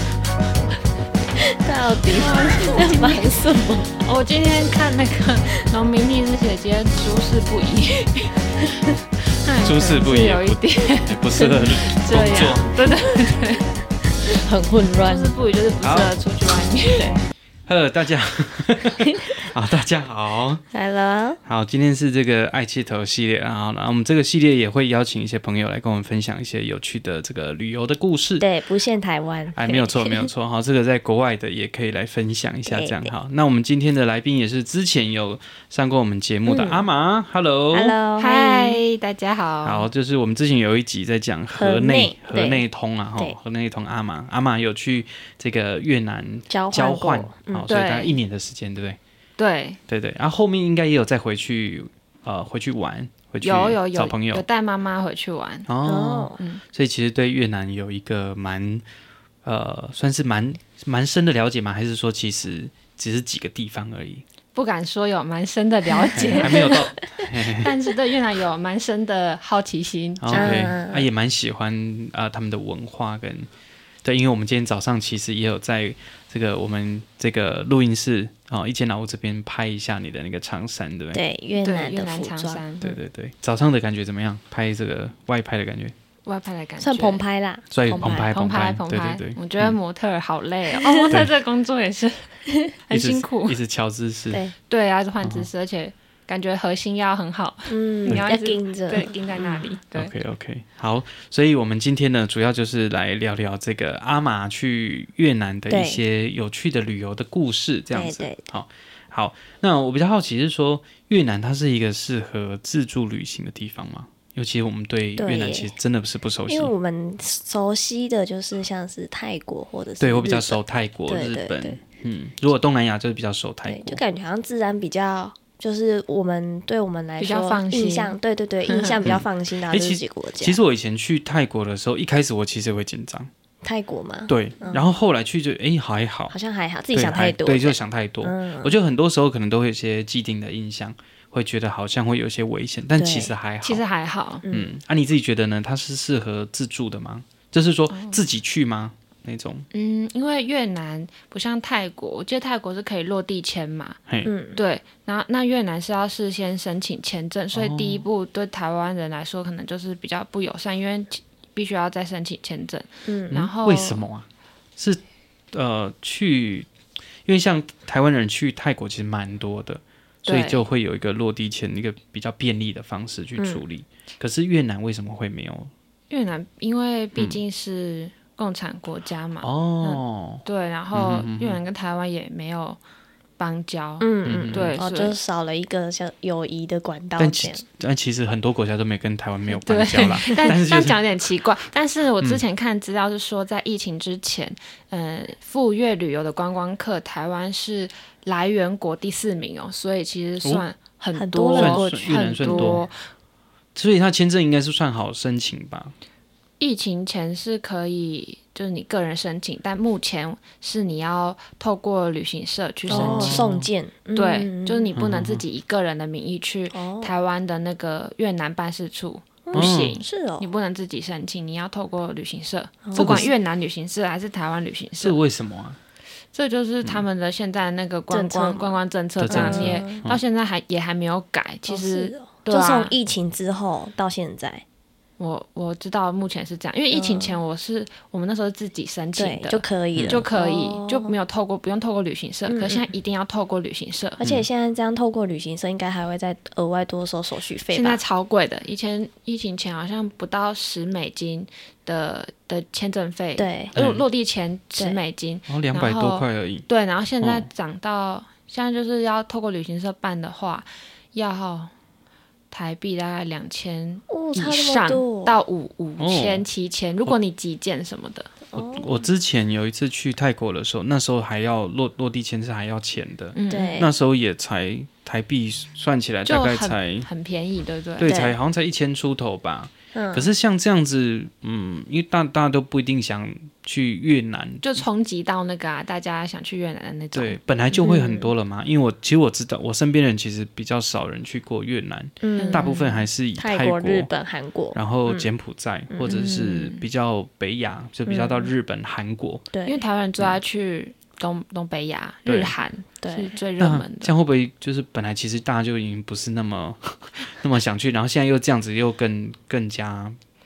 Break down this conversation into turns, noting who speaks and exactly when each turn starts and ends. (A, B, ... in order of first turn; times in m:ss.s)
0:01.4-0:04.0 A
0:02.2-0:03.3 B
0:04.0-0:08.7 B
0:08.6-0:08.9 A
0:09.4-0:13.7 B
0:09.6-0:12.8 C
0:11.4-0:11.8 A
0:12.9-0:13.3 A
0:14.2-0:15.3 A
0:15.0-0:17.2 B
0:15.8-0:16.1 C
0:17.7-0:20.6 C
0:20.7-0:21.4 A
0:21.4-0:28.5 C
0:28.4-0:30.3 A
0:29.5-0:38.0 C
0:32.7-0:33.1 A
0:36.5-0:36.8 A
0:37.7-0:38.8 A
0:38.2-0:39.9 B
0:39.6-0:49.0 C
0:41.5-0:42.6 A
0:46.5-0:47.7 A
0:47.7-0:48.2 B
0:49.4-0:49.8 B
0:49.9-0:54.4 C
0:53.4-0:55.7 B
0:55.7-0:58.8 C
0:55.8-0:56.4 A
0:59.4-1:04.2 C
1:04.6-1:06.8 B
1:05.9-1:06.9 A
1:06.1-1:07.7 C
1:07.6-1:10.6 B
1:10.2-1:13.5 C
1:10.3-1:11.1 A
1:14.0-1:21.2 C
1:21.1-1:22.6 A
1:21.6-1:22.9 B
1:22.8-1:25.9 C
1:26.3-1:27.2 B
1:26.8-1:28.2 A
1:27.7-1:29.8 C
1:27.9-1:32.3 B
1:30.7-1:31.1 A
1:32.9-1:33.6 B
1:32.9-1:34.4 C
1:34.7-1:40.1 B
1:35.2-1:35.5 C
1:37.7-1:39.6 A
1:39.9-1:56.7 C
1:45.7-1:46.0 A
1:47.9-1:48.5 A
1:55.2-1:55.7 A
1:56.5-2:01.8 A
2:00.0-2:04.0 C
2:03.7-2:10.6 A
2:07.2-2:09.0 B
2:09.0-2:13.3 C
2:13.6-2:14.9 A
2:14.3-2:16.4 C
2:16.3-2:18.8 A
2:16.9-2:23.8 C
2:23.0-2:23.3 A
2:23.6-2:24.4 B
2:24.4-2:24.7 A
2:24.5-2:29.7 C
2:27.9-2:28.2 B
2:29.7-2:34.0 B
2:34.2-2:34.6 A
2:34.6-2:44.0 B
2:37.5-2:38.0 C
2:43.1-2:43.5 A
2:43.6-2:44.3 C
2:45.5-2:46.7 C
2:47.2-2:55.7 C
2:50.2-2:50.6 B
2:53.4-2:53.6 A
2:56.1-3:02.8 B
2:59.4-3:01.6 C
3:03.4-3:05.2 B
3:04.0-3:07.6 A
3:04.2-3:04.7 C
3:07.2-3:11.0 C
3:09.6-3:22.9 B
3:21.1-3:22.8 A
3:21.6-3:22.9 C
3:23.8-3:25.9 C
3:26.6-3:33.5 B
3:32.9-3:35.0 A
3:32.9-3:33.7 C
3:34.2-3:45.2 B
3:35.0-3:35.4 C
3:36.7-3:37.1 A
3:39.5-3:40.5 A
3:39.6-3:40.0 C
3:42.9-3:43.3 A
3:43.0-3:43.3 C
3:45.0-3:45.8 C
3:46.3-3:53.0 B
3:48.1-3:48.8 A
3:49.2-3:50.2 C
3:49.3-3:50.0 A
3:51.7-3:54.6 A
3:55.2-4:04.2 B
3:56.9-3:57.4 A
3:59.2-4:01.1 A
4:00.0-4:00.2 C
4:02.5-4:02.9 A
4:04.2-4:08.0 A
4:04.2-4:04.5 C
4:07.7-4:21.7 B
4:13.4-4:13.8 A
4:13.8-4:14.0 C
4:15.5-4:16.7 C
4:17.2-4:17.5 C
4:22.5-4:28.3 B
4:24.1-4:25.4 A
4:26.0-4:26.4 C
4:28.5-4:28.9 A
4:28.5-4:37.1 C
4:33.4-4:33.8 B
4:33.5-4:33.9 A
4:36.3-4:38.2 B
4:38.0-4:44.8 C
4:38.0-4:38.4 A
4:39.9-4:40.3 A
4:44.6-4:47.4 B
4:47.1-4:54.1 C
4:47.7-4:48.3 A
4:52.2-4:52.8 A
4:52.4-4:53.0 B
4:53.4-4:55.3 A
4:54.7-4:59.5 C
4:56.1-4:56.8 B
4:58.1-4:58.5 A
4:59.5-4:59.8 A
4:59.7-5:04.1 B
5:02.3-5:02.5 C
5:03.0-5:03.4 A
5:03.6-5:10.2 C